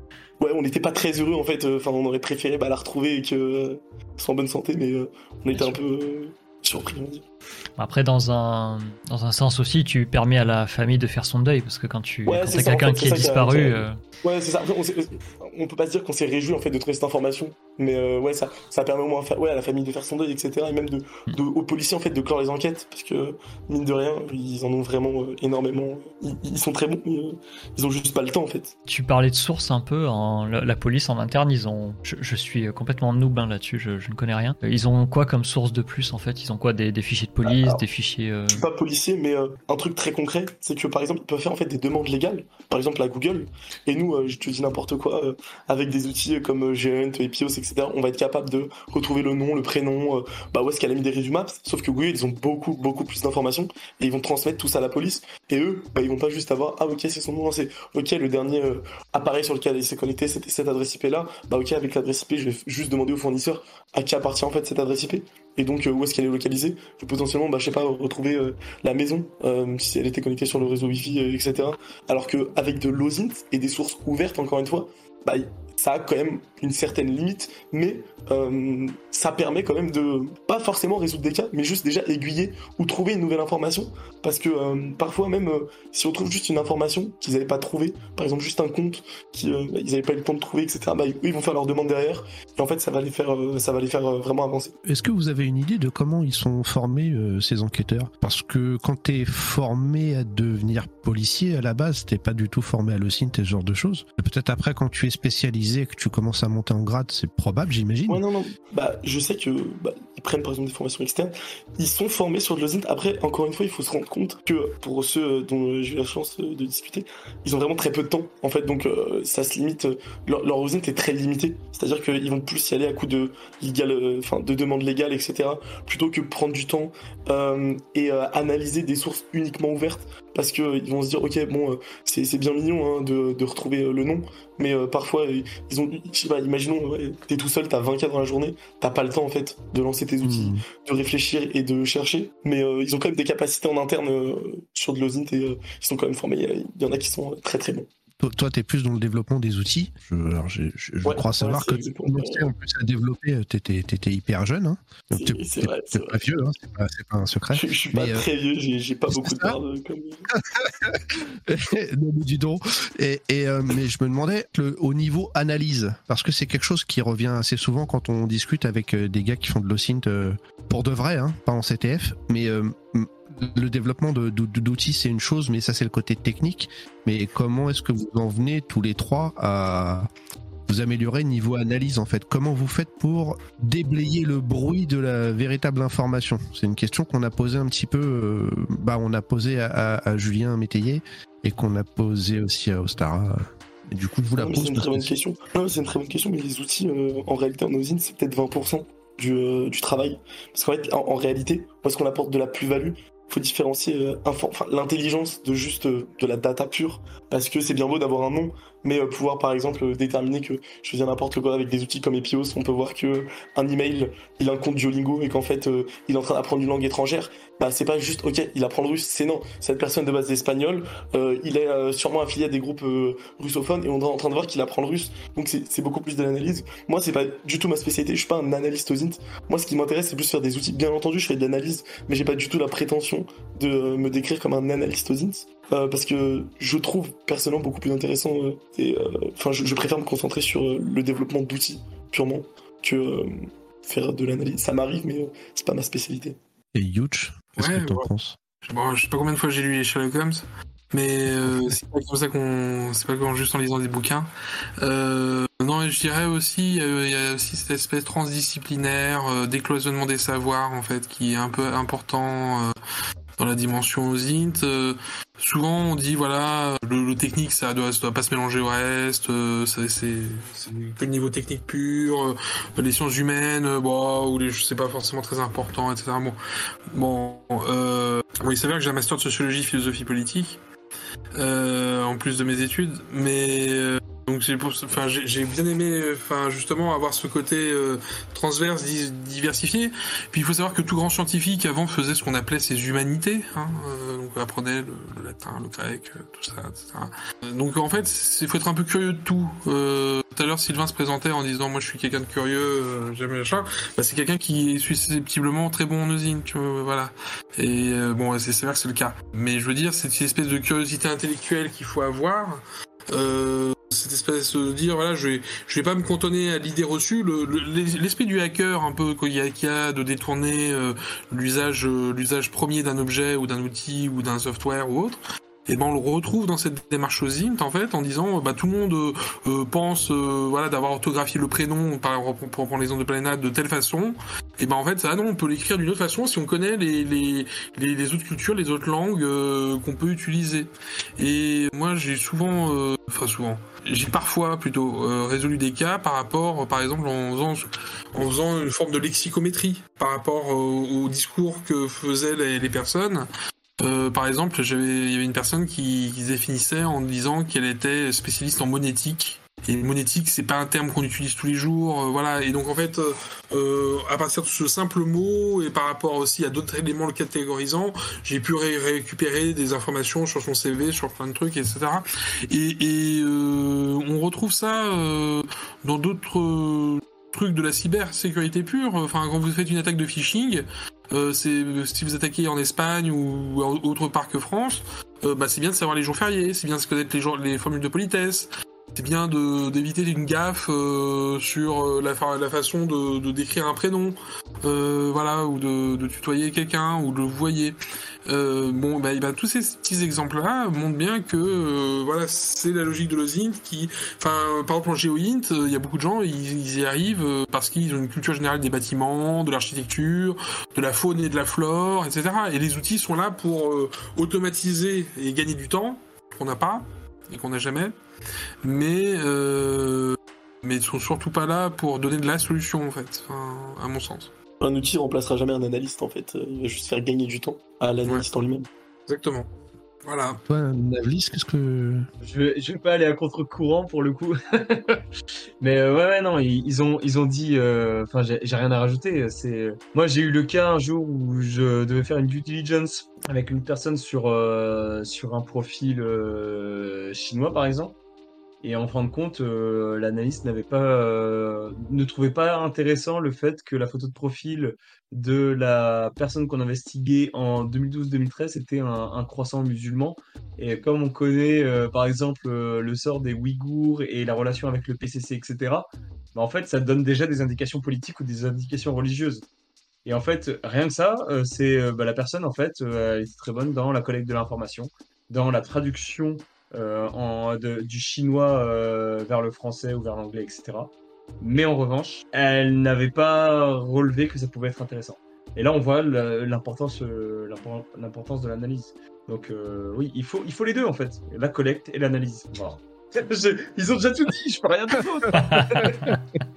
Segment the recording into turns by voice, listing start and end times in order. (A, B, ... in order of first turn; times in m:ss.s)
0:00.4-0:07.2 A
0:07.8-0:14.0 B
0:12.2-0:28.7 A
0:28.9-0:38.6 B
0:37.4-0:37.8 A
0:38.5-1:34.8 A
1:34.8-1:48.2 C
1:48.1-2:27.9 A
2:20.2-2:20.6 C
2:28.2-2:38.2 C
2:31.0-2:32.4 A
2:35.1-2:36.2 A
2:37.5-2:40.3 A
2:39.1-2:39.6 C
2:40.3-3:00.1 C
3:00.7-3:15.1 C
3:14.4-4:06.4 A
4:06.7-4:08.4 C
4:07.6-4:08.1 D
4:08.6-4:14.3 D
4:14.8-4:22.7 D
4:23.4-4:36.4 D
4:36.9-4:40.6 D
4:41.4-5:53.3 D
5:53.8-6:37.8 D
6:38.3-6:58.0 D
6:58.6-7:04.3 D
7:04.6-7:08.7 A
7:09.1-7:09.5 D
7:10.0-7:10.4 D
7:10.5-7:12.0 C
7:12.2-7:15.0 E
7:15.6-7:27.9 E
7:28.6-7:49.4 E
7:50.0-8:16.2 E
8:15.5-8:16.1 B